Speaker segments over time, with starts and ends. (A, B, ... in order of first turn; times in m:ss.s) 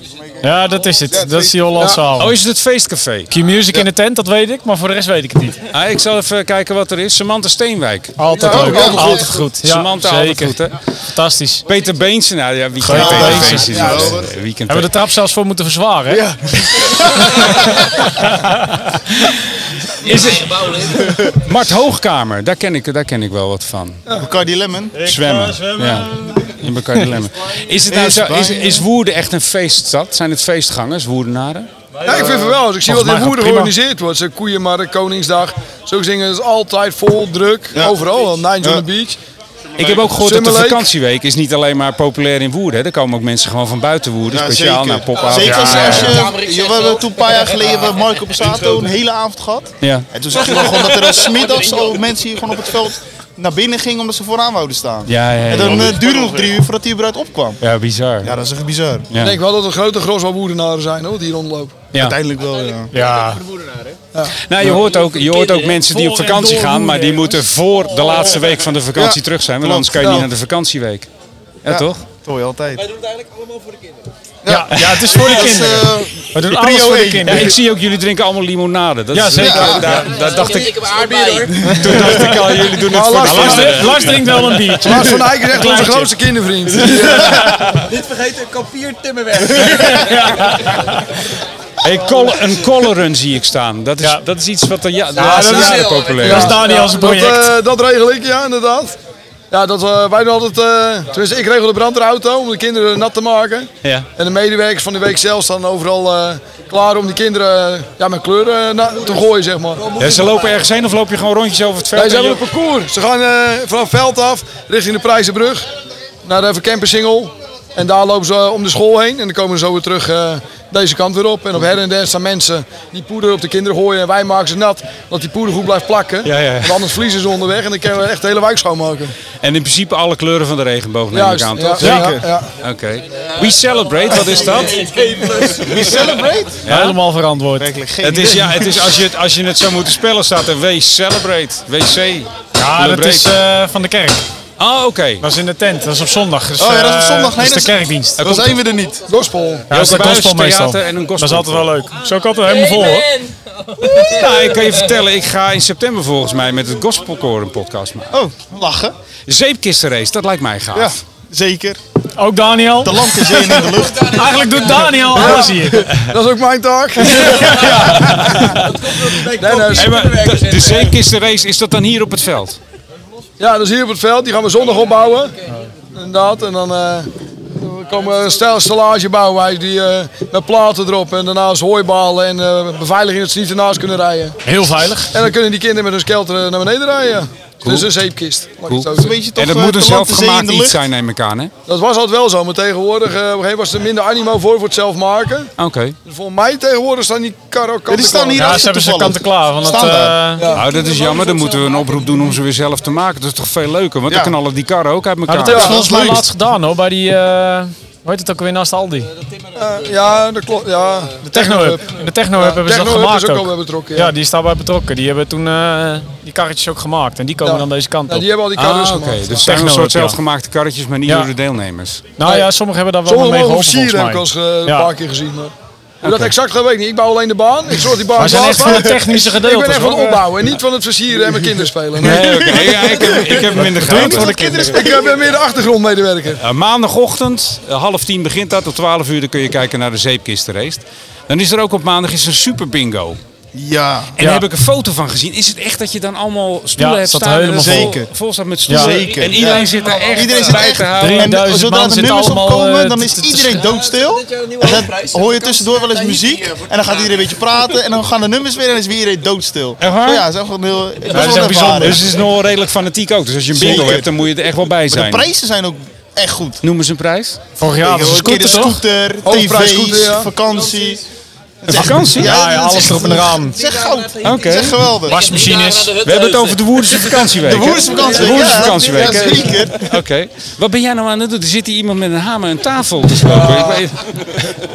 0:00.4-0:02.4 A
0:01.1-0:02.0 B
0:02.2-0:03.3 C
0:03.3-0:05.6 A
0:05.7-0:10.8 C
0:08.2-0:11.6 A
0:08.3-0:09.2 D
0:08.4-0:09.3 B
0:08.6-0:09.0 E
0:11.7-0:14.9 C
0:12.8-0:13.9 A
0:12.8-0:14.3 B
0:14.7-0:16.2 A
0:16.1-0:17.5 B
0:17.3-0:18.8 A
0:19.1-0:19.4 C
0:19.9-0:24.0 C
0:20.0-0:21.0 E
0:24.1-0:25.1 B
0:25.0-0:27.0 A
0:25.0-0:31.7 C
0:27.9-0:28.9 B
0:32.0-0:33.7 A
0:32.0-0:39.2 D
0:39.8-0:46.2 C
0:40.2-0:40.9 D
0:44.3-0:57.6 B
0:45.4-0:46.2 A
0:45.8-0:47.9 E
0:49.8-0:50.1 C
0:50.5-0:51.9 E
0:55.1-0:56.0 C
0:57.6-0:58.3 C
0:58.2-0:59.1 B
0:59.1-0:59.4 C
0:59.2-1:01.8 D
1:01.9-1:02.2 C
1:01.9-1:02.9 B
1:02.6-1:04.0 E
1:02.9-1:03.4 A
1:04.4-1:11.1 C
1:05.0-1:05.7 E
1:05.8-1:07.4 A
1:08.9-1:10.2 B
1:10.0-1:10.3 D
1:11.6-1:12.0 C
1:11.6-1:12.9 B
1:12.8-1:14.0 E
1:14.4-1:17.6 B
1:14.5-1:17.5 A
1:14.8-1:15.0 C
1:17.3-1:21.1 C
1:19.1-1:20.2 A
1:19.4-1:20.0 B
1:20.0-1:21.8 E
1:21.5-1:22.8 B
1:21.6-1:24.6 C
1:22.9-1:24.0 D
1:23.2-1:26.1 A
1:24.8-1:27.6 D
1:26.8-1:27.9 A
1:27.7-1:30.2 E
1:29.5-1:31.1 A
1:31.8-1:36.7 C
1:35.2-1:37.5 A
1:35.2-1:35.4 D
1:35.4-1:36.4 E
1:36.2-1:39.0 D
1:39.5-1:50.0 D
1:49.9-1:50.4 E
1:50.0-1:52.4 C
1:52.0-1:55.7 D
1:56.2-2:09.2 D
2:06.2-2:06.8 C
2:09.4-2:15.0 C
2:11.1-2:12.5 D
2:11.8-2:12.1 A
2:11.8-2:12.3 B
2:14.2-2:16.2 E
2:15.5-2:16.6 B
2:16.6-2:17.0 C
2:16.7-2:17.7 A
2:17.6-2:19.0 B
2:18.0-2:23.3 C
2:22.6-2:24.2 A
2:24.6-2:25.2 C
2:25.2-2:28.2 A
2:26.6-2:29.1 B
2:28.2-2:28.6 C
2:29.1-2:29.7 D
2:29.7-2:33.2 A
2:29.7-2:31.8 C
2:32.4-2:34.8 E
2:33.9-2:38.2 C
2:38.1-2:39.0 B
2:39.3-2:41.0 C
2:40.7-2:41.8 B
2:42.2-2:45.9 A
2:42.8-2:44.4 B
2:45.1-2:47.9 D
2:47.0-2:49.2 C
2:47.2-2:48.2 A
2:48.5-2:51.0 E
2:49.4-2:50.1 D
2:49.7-2:52.6 C
2:53.4-2:55.4 D
2:55.9-3:04.4 D
3:04.4-3:05.2 A
3:05.1-3:09.2 D
3:07.6-3:07.9 C
3:08.7-3:11.5 C
3:08.9-3:10.8 B
3:11.7-3:15.5 D
3:15.6-3:16.0 C
3:16.0-3:18.7 D
3:17.9-3:20.3 B
3:18.4-3:20.5 A
3:20.4-3:20.7 D
3:20.5-3:25.8 C
3:20.6-3:22.4 E
3:24.1-3:24.4 B
3:25.3-3:29.1 A
3:25.5-3:26.3 B
3:25.5-3:25.8 D
3:29.3-3:29.8 E
3:29.6-3:34.1 D
3:31.2-3:31.7 B
3:31.3-3:38.3 A
3:37.4-3:39.4 D
3:38.6-3:42.1 C
3:39.4-3:40.2 A
3:41.1-3:41.3 A
3:42.2-3:44.9 A
3:42.2-3:42.5 D
3:43.1-3:53.0 D
3:46.0-3:46.3 C
3:48.2-3:50.3 A
3:52.0-3:54.3 C
3:52.1-3:55.1 B
3:53.6-3:54.9 A
3:54.1-3:56.4 D
3:56.4-4:03.2 C
4:03.5-4:04.2 B
4:04.2-4:11.4 C
4:04.2-4:04.5 A
4:06.8-4:08.0 A
4:07.6-4:08.1 B
4:08.7-4:09.0 A
4:08.7-4:22.2 B
4:09.4-4:10.7 E
4:10.9-4:13.6 A
4:13.6-4:17.3 E
4:19.8-4:20.3 C
4:21.1-4:25.3 C
4:21.1-4:21.9 A
4:23.5-4:24.1 B
4:24.9-4:26.6 B
4:26.6-4:27.4 C
4:27.6-4:28.8 A
4:27.7-4:31.0 B
4:29.2-4:30.3 D
4:30.6-4:31.0 E
4:31.6-4:35.4 B
4:31.7-4:32.3 C
4:31.8-4:33.6 A
4:33.6-4:39.5 E
4:34.2-4:34.8 C
4:35.0-4:36.0 A
4:36.0-4:44.5 C
4:37.4-4:39.9 B
4:43.3-4:43.9 E